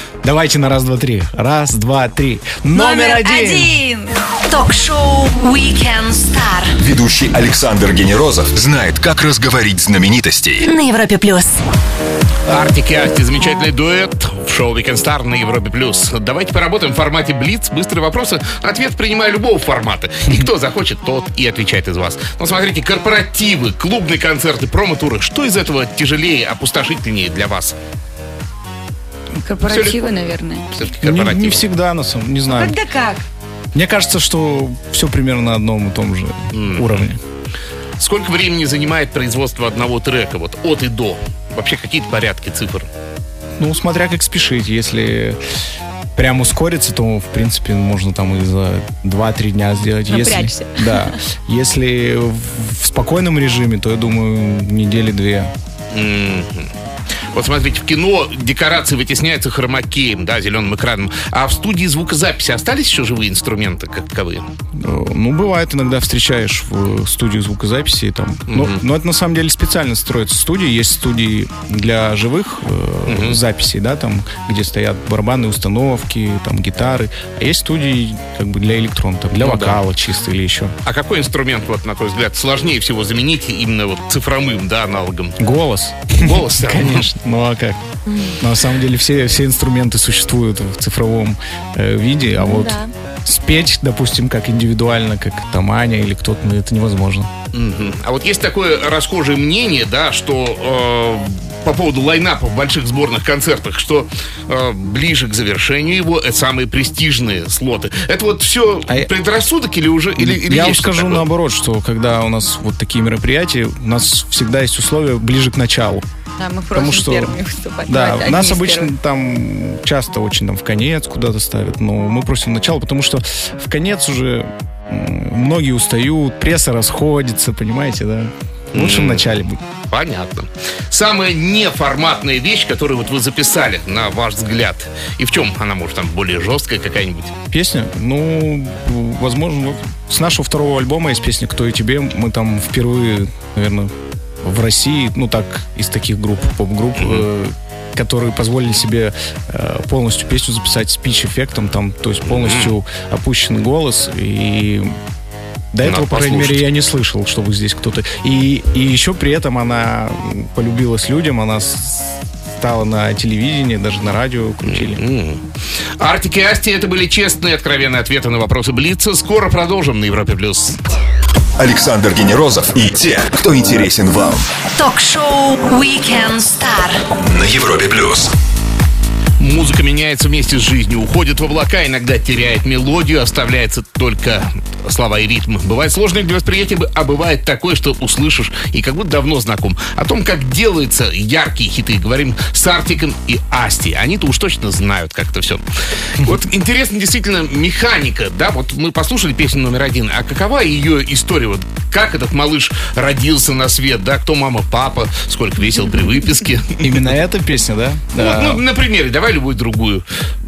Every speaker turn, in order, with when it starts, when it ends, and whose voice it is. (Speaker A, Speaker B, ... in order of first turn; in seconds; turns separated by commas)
Speaker A: 0.2-3.7, Speaker B: 2.7-4.1, Speaker C: 4.5-6.8, Speaker D: 6.8-10.7, Speaker C: 10.6-11.5, Speaker E: 12.4-27.8, Speaker B: 29.4-30.7, Speaker E: 29.7-30.1, Speaker E: 30.7-31.6, Speaker A: 30.9-32.7, Speaker B: 32.5-33.2, Speaker A: 33.7-37.2, Speaker E: 36.5-37.1, Speaker E: 38.0-42.9, Speaker A: 43.6-45.4, Speaker A: 46.1-55.5, Speaker B: 50.1-51.2, Speaker E: 55.9-56.7, Speaker E: 57.3-64.4, Speaker A: 64.8-80.7, Speaker E: 68.5-68.8, Speaker E: 73.1-73.4, Speaker E: 79.4-79.8, Speaker E: 80.8-85.4, Speaker A: 85.4-97.3, Speaker E: 86.2-87.1, Speaker B: 88.1-88.4, Speaker B: 92.4-92.9, Speaker E: 97.5-111.2, Speaker A: 110.2-116.0, Speaker B: 116.4-118.9, Speaker A: 116.7-117.3, Speaker A: 117.9-129.6, Speaker E: 128.7-137.3, Speaker A: 137.5-155.0, Speaker E: 147.0-147.2, Speaker E: 152.3-152.7, Speaker A: 155.7-165.0, Speaker E: 155.8-156.6, Speaker E: 164.6-165.4, Speaker E: 166.0-170.8, Speaker D: 171.6-174.5, Speaker C: 174.8-177.0, Speaker D: 177.2-178.3, Speaker E: 179.4-195.6, Speaker E: 196.1-207.1, Speaker A: 206.8-208.6, Speaker E: 208.1-210.0